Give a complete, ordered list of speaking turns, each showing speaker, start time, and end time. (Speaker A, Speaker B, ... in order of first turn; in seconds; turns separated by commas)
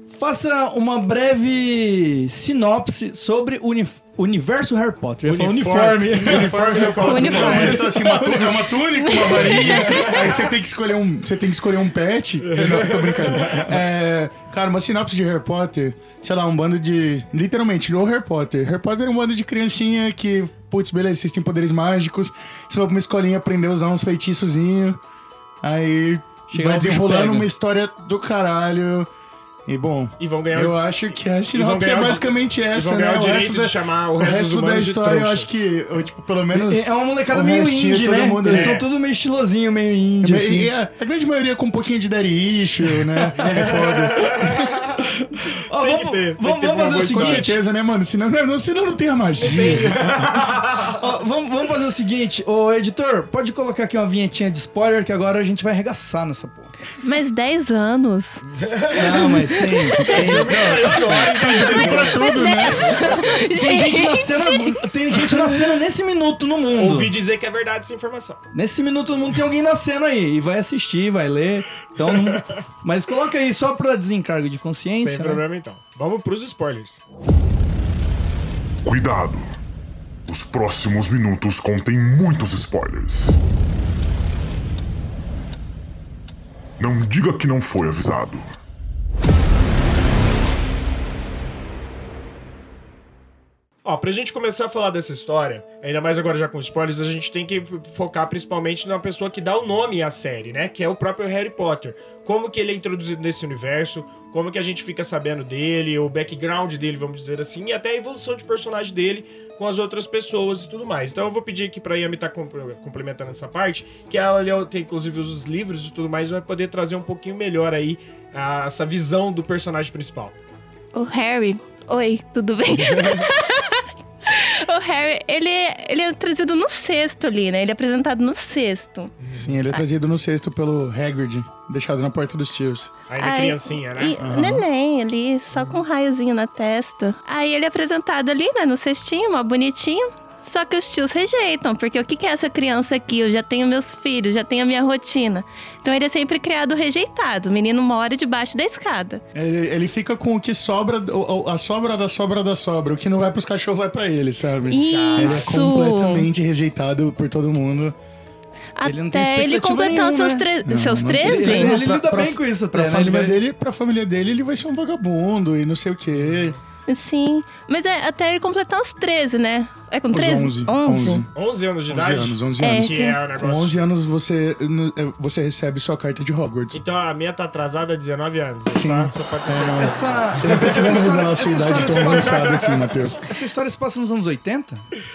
Speaker A: 0.1-8.7, Speaker B: 5.2-7.8, Speaker C: 6.3-25.0, Speaker D: 7.0-7.8, Speaker D: 9.0-9.8, Speaker B: 9.6-10.4, Speaker B: 12.4-13.5, Speaker C: 25.6-29.1, Speaker A: 26.5-27.5, Speaker C: 29.7-38.8, Speaker B: 30.2-30.8, Speaker B: 31.5-35.5, Speaker A: 36.5-40.7, Speaker B: 38.5-38.9, Speaker C: 40.2-44.5, Speaker A: 43.3-43.6, Speaker B: 43.4-45.1, Speaker A: 45.0-47.6, Speaker B: 45.7-47.5, Speaker C: 47.1-50.5, Speaker B: 49.4-51.0, Speaker A: 49.5-49.8, Speaker A: 50.9-56.7, Speaker D: 57.0-58.4, Speaker B: 58.6-59.4, Speaker A: 58.9-67.1, Speaker D: 59.9-60.2, Speaker B: 60.0-62.2, Speaker C: 60.2-62.9, Speaker D: 61.6-64.8, Speaker B: 66.7-68.4, Speaker A: 68.5-75.4, Speaker B: 72.0-72.7, Speaker B: 75.0-77.0, Speaker E: 78.8-79.6, Speaker E: 80.3-83.4, Speaker E: 86.8-88.6, Speaker B: 93.8-120.4, Speaker D: 120.9-129.1, Speaker B: 122.8-123.3, Speaker B: 129.2-129.5, Speaker C: 129.4-132.9, Speaker B: 133.1-134.2, Speaker D: 133.2-149.2, Speaker C: 134.2-134.7, Speaker B: 135.5-135.8, Speaker C: 149.3-158.0, Speaker D: 154.7-156.3, Speaker B: 154.9-155.5, Speaker D: 158.8-161.8, Speaker A: 158.8-160.5, Speaker C: 160.7-166.6, Speaker A: 161.2-163.4, Speaker B: 166.2-166.6, Speaker D: 166.9-171.2, Speaker C: 170.1-171.3, Speaker B: 171.3-173.8, Speaker C: 171.9-176.8, Speaker D: 172.6-173.2, Speaker B: 176.7-181.0, Speaker C: 178.7-183.2, Speaker A: 179.8-182.4, Speaker B: 181.7-182.9, Speaker A: 183.2-184.8